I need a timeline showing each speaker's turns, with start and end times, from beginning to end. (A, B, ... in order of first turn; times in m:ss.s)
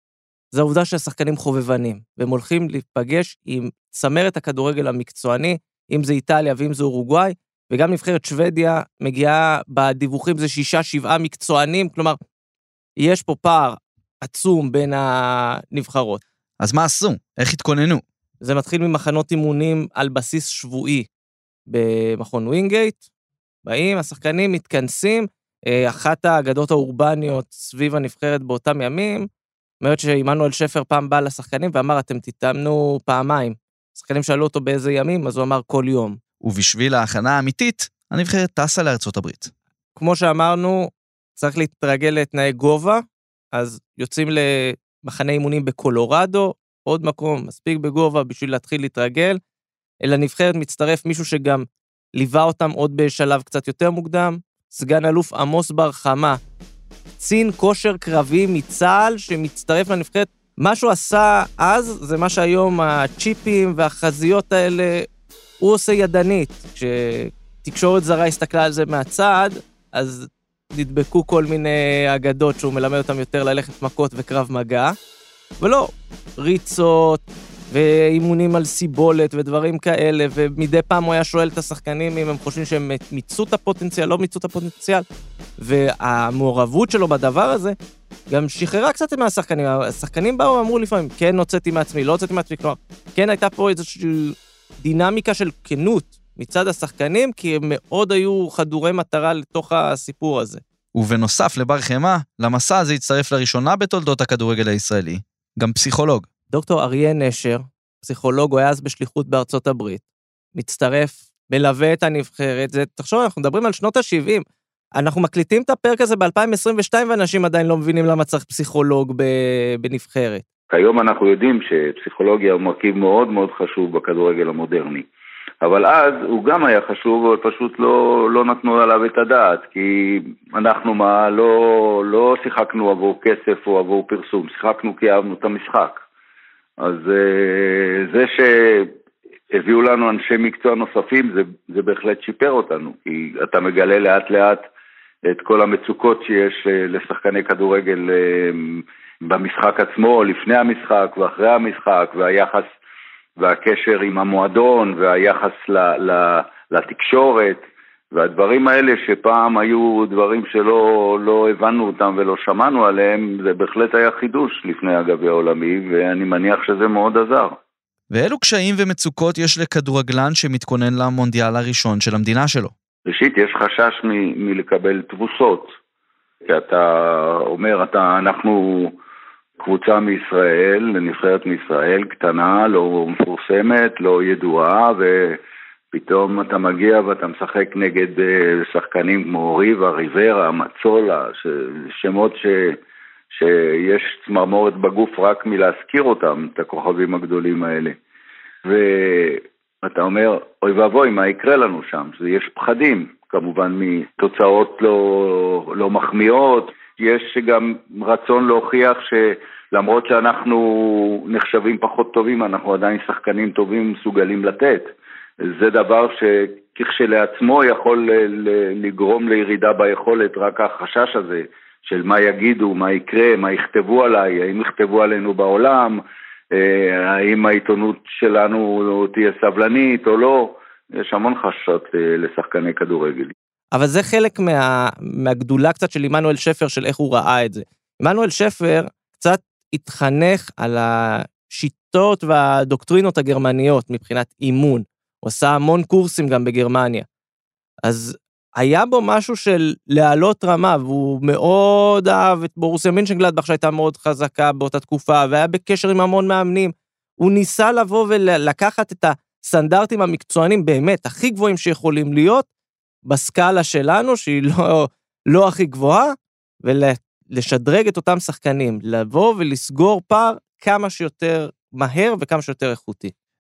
0:00.5-0:12.2 A
0:13.0-0:16.2 A
0:16.6-0:18.0 B
0:18.4-0:21.1 A
0:21.7-0:23.0 A
0:23.7-0:29.3 A
0:29.8-0:36.2 A
0:36.4-0:39.5 B
0:40.0-0:43.0 A
0:43.5-0:49.4 A
0:50.0-0:56.4 A
0:57.2-1:05.1 A
1:05.6-1:15.0 A
1:15.6-1:25.0 A
1:25.6-1:27.8 A
1:28.3-1:40.6 A
1:41.0-1:46.3 B
1:46.5-1:50.0 A
1:50.6-1:54.4 A
1:55.0-2:00.4 A
2:00.7-2:05.0 C
2:05.6-2:16.0 C
2:16.8-2:18.9 C
2:19.5-2:24.6 C
2:25.2-2:32.7 C
2:33.4-2:37.6 C
2:38.1-2:47.6 C
2:48.1-2:52.7 B
2:53.1-2:55.7 C
2:56.4-2:59.0 C
2:59.6-3:05.4 C
3:05.9-3:12.8 C
3:13.3-3:18.0 C
3:18.6-3:34.9 C
3:35.4-3:46.0 C
3:46.5-3:53.3 C
3:53.7-4:07.1 A
4:07.8-4:22.5 A
4:23.1-4:33.1 A